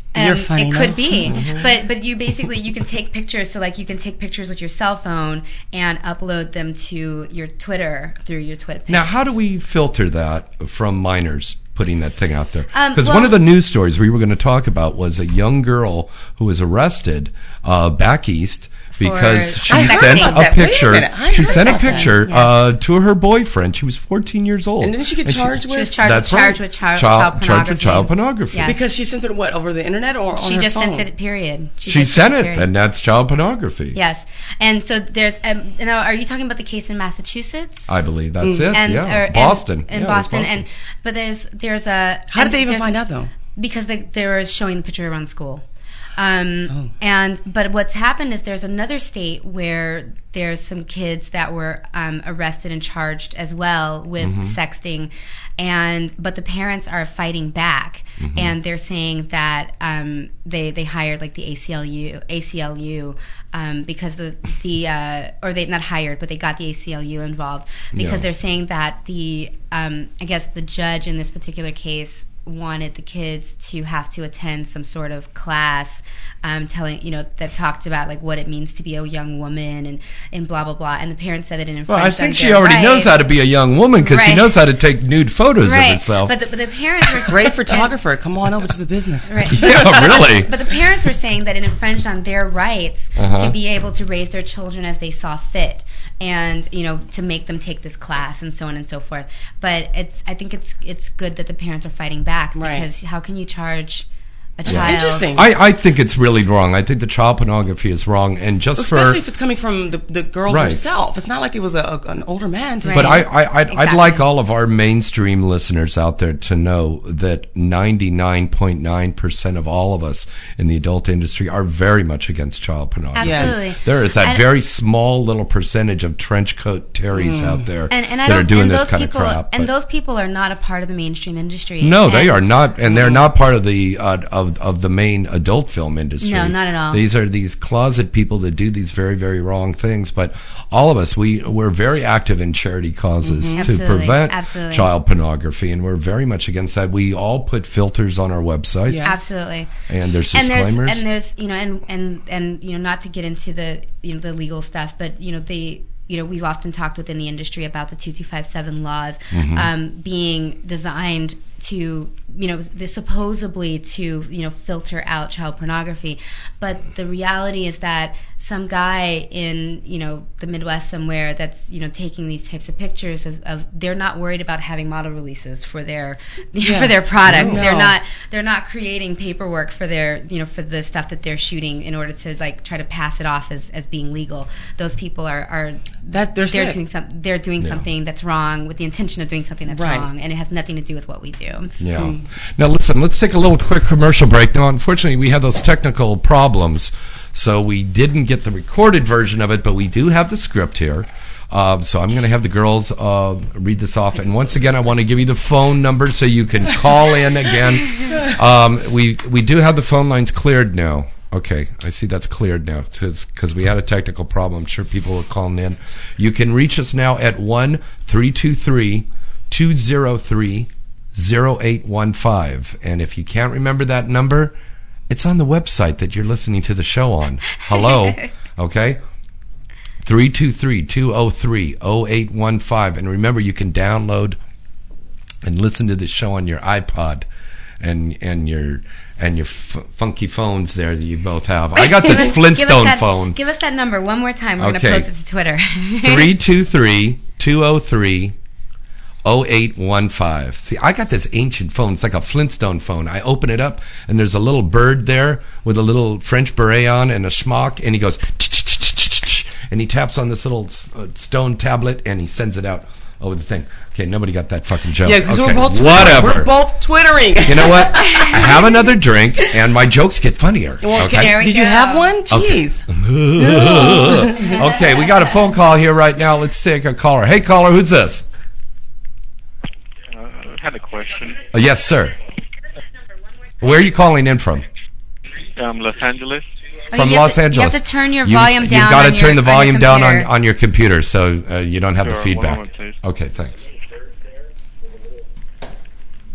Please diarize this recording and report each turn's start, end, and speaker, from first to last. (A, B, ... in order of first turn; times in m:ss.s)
0:00.1-0:09.0 A
0:00.2-0:01.7 B
0:01.3-0:01.6 C
0:08.9-0:28.7 C
0:12.7-0:13.4 A
0:18.9-0:20.5 A
0:19.7-0:22.1 B
0:21.5-0:22.6 A
0:24.8-0:26.0 B
0:25.6-0:28.8 A
0:28.6-0:31.1 B
0:30.3-0:32.7 A
0:31.9-0:34.0 C
0:33.9-0:38.0 A
0:37.9-0:40.6 C
0:38.4-0:38.7 B
0:38.7-0:42.9 A
0:42.3-0:43.3 B
0:43.6-0:45.6 A
0:46.2-1:23.2 A
0:54.2-0:54.6 C
0:58.2-0:58.6 C
1:07.9-1:08.2 C
1:21.9-1:26.3 C
1:24.0-1:24.6 A
1:25.6-1:27.9 A
1:27.2-1:30.4 B
1:29.3-1:44.1 A
1:29.5-1:30.5 C
1:33.2-1:33.6 C
1:42.6-1:42.9 B
1:44.6-1:45.4 A
1:44.6-1:45.5 B
1:44.7-1:49.2 C
1:48.8-1:53.2 B
1:50.5-1:50.8 C
1:52.8-1:54.2 A
1:52.9-2:09.7 C
2:03.2-2:04.4 A
2:03.2-2:03.6 B
2:07.1-2:07.6 B
2:07.9-2:12.4 A
2:11.8-2:29.2 C
2:12.9-2:13.2 B
2:16.2-2:17.0 A
2:23.2-2:23.6 B
2:23.6-2:24.9 A
2:28.9-2:29.1 B
2:29.0-2:29.7 A
2:29.9-2:31.0 C
2:30.3-3:11.7 A
2:39.3-2:39.7 C
2:56.6-2:58.0 B
2:57.3-2:57.6 C
3:06.1-3:06.8 B
3:07.6-3:07.9 C
3:09.7-3:10.1 B
3:11.8-3:12.3 B
3:11.8-3:44.6 C
3:28.1-3:28.4 B
3:45.1-3:49.0 C
3:50.0-3:54.4 C
3:55.4-3:57.3 C
3:57.8-4:03.4 C
4:01.8-4:06.3 A
4:04.6-4:05.1 C
4:06.0-4:08.4 C
4:09.2-4:26.5 C
4:25.0-4:28.6 B
4:27.4-4:31.4 C
4:30.8-4:34.6 B
4:31.0-4:32.1 A
4:32.3-4:38.3 C
4:40.1-4:41.4 D
4:41.5-4:42.2 C
4:43.6-4:44.6 C
4:45.6-4:46.5 D
4:46.9-4:50.3 A
4:46.9-4:53.6 C
4:52.0-4:53.0 D